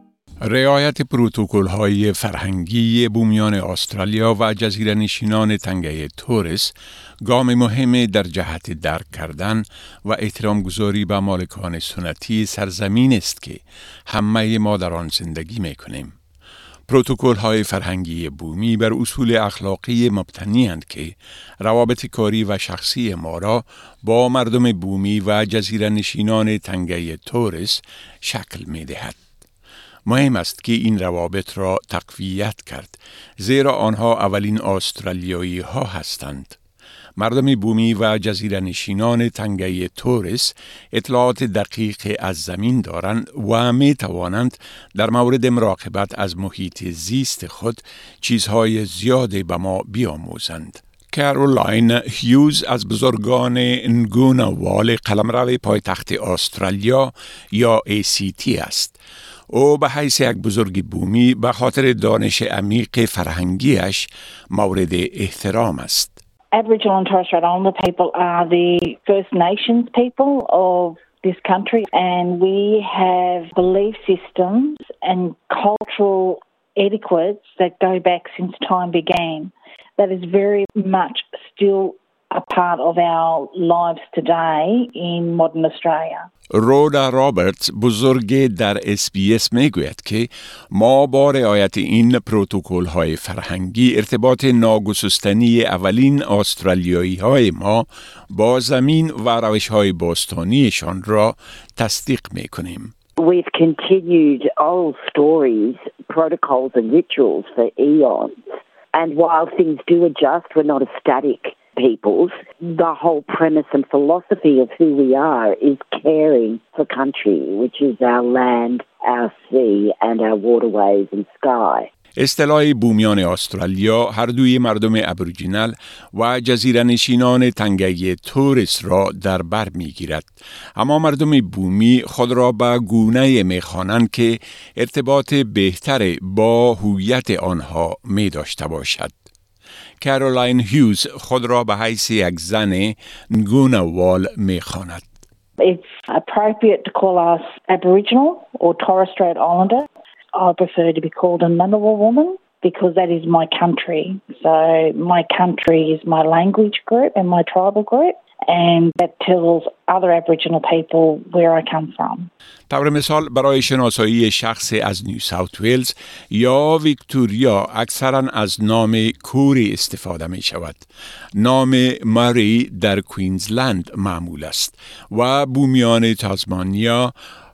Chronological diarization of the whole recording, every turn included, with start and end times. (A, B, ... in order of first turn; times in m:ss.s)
0:00.4-0:16.1 A
0:16.9-0:29.2 A
0:30.0-0:36.6 A
0:37.2-0:59.0 A
0:59.5-1:06.2 A
1:06.5-1:26.3 B
1:26.5-1:42.9 A
1:43.2-1:48.3 C
1:48.9-2:01.9 C
2:02.2-2:19.1 A
2:20.0-2:25.0 A
2:25.6-2:42.3 B
2:42.7-2:57.1 A